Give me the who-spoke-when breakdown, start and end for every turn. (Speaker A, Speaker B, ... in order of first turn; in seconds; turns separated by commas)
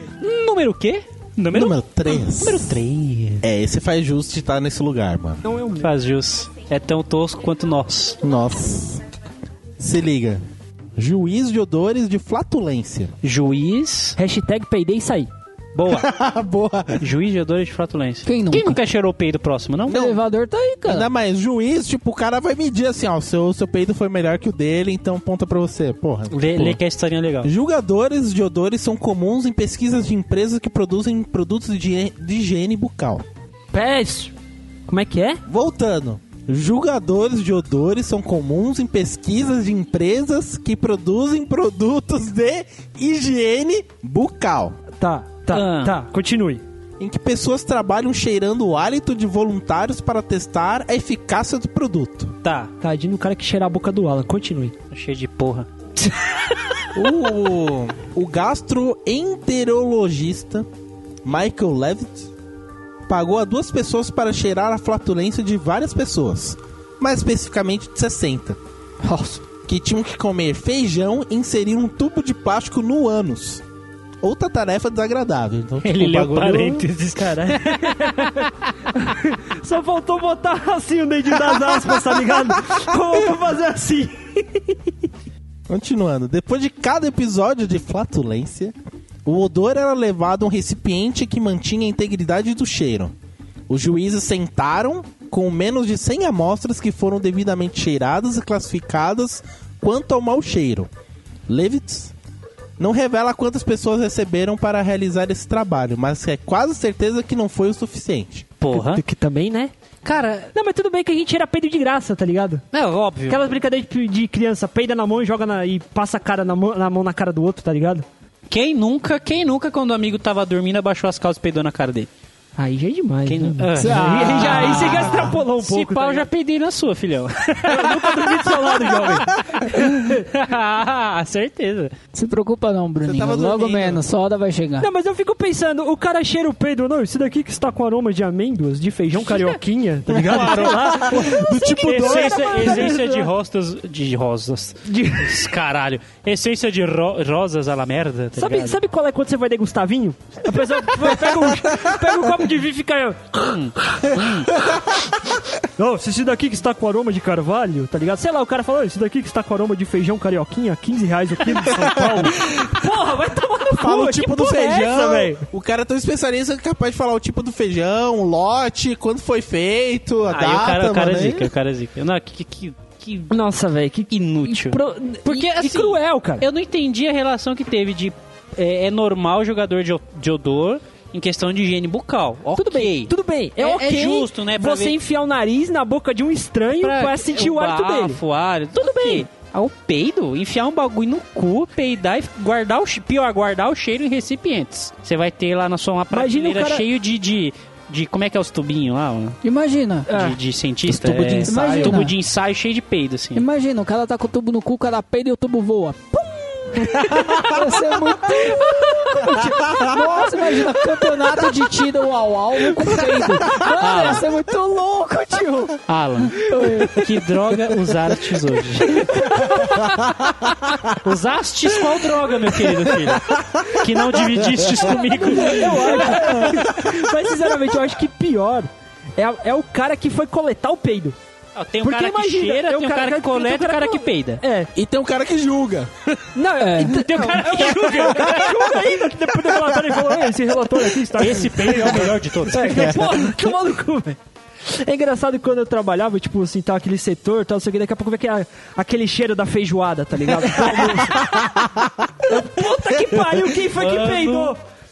Speaker A: 0.2-3.4, Speaker B: 1.5-2.7, Speaker B: 3.4-5.4, Speaker C: 5.4-5.9, Speaker A: 5.8-8.2, Speaker B: 8.2-9.0, Speaker B: 9.8-10.4, Speaker B: 10.9-13.1, Speaker A: 13.2-14.2, Speaker C: 14.2-15.3, Speaker A: 15.7-16.1, Speaker B: 15.9-17.0, Speaker A: 17.0-20.1, Speaker D: 18.2-18.8, Speaker D: 19.9-21.1, Speaker B: 19.9-20.2, Speaker B: 20.9-26.8, Speaker A: 26.3-27.5, Speaker B: 27.4-33.2, Speaker C: 33.7-34.3, Speaker C: 34.9-35.4, Speaker B: 35.5-44.8, Speaker C: 45.0-46.6, Speaker A: 45.5-46.0, Speaker B: 47.0-52.3, Speaker A: 52.4-52.7, Speaker C: 52.8-54.7, Speaker A: 54.9-55.7, Speaker B: 56.9-60.7, Speaker B: 61.2-62.3, Speaker B: 63.1-68.6, Speaker D: 69.0-69.4, Speaker B: 69.6-73.6, Speaker B: 74.2-76.8, Speaker A: 75.8-78.4, Speaker C: 77.1-84.9, Speaker B: 85.7-93.1, Speaker B: 93.7-100.9, Speaker B: 101.5-102.1, Speaker B: 102.8-108.5, Speaker A: 108.6-109.0, Speaker C: 108.7-109.7, Speaker A: 110.0-110.5, Speaker C: 110.5-112.6, Speaker A: 112.7-113.5, Speaker C: 113.3-118.0, Speaker A: 118.5-122.1, Speaker C: 122.6-126.3, Speaker A: 123.2-131.9, Speaker D: 123.7-125.3, Speaker C: 127.6-130.2, Speaker D: 132.1-134.9, Speaker B: 133.0-134.0, Speaker C: 134.8-143.3, Speaker A: 139.3-139.6, Speaker B: 140.1-142.8, Speaker A: 140.2-148.8, Speaker C: 144.8-145.4, Speaker C: 148.3-153.5, Speaker A: 153.4-154.5, Speaker C: 155.8-165.4, Speaker B: 161.8-162.7, Speaker B: 163.7-171.5, Speaker A: 170.3-173.4, Speaker C: 173.3-176.4, Speaker A: 174.1-184.9, Speaker C: 182.6-188.2, Speaker A: 186.8-199.4, Speaker C: 188.8-189.3, Speaker C: 196.1-196.8, Speaker D: 199.4-200.3, Speaker A: 200.1-203.4, Speaker B: 200.9-202.0, Speaker D: 201.4-202.1, Speaker D: 203.3-217.1, Speaker A: 213.5-214.2, Speaker A: 215.9-220.0, Speaker C: 219.1-219.7, Speaker A: 220.9-226.6, Speaker C: 225.2-231.2, Speaker B: 226.1-226.9, Speaker A: 231.5-234.4, Speaker C: 231.8-234.7, Speaker B: 234.7-236.1, Speaker C: 236.3-251.4, Speaker D: 236.6-237.1, Speaker A: 236.9-238.6, Speaker B: 239.7-240.0, Speaker A: 241.2-242.9, Speaker B: 241.9-243.1, Speaker C: 252.2-254.6, Speaker A: 253.7-254.5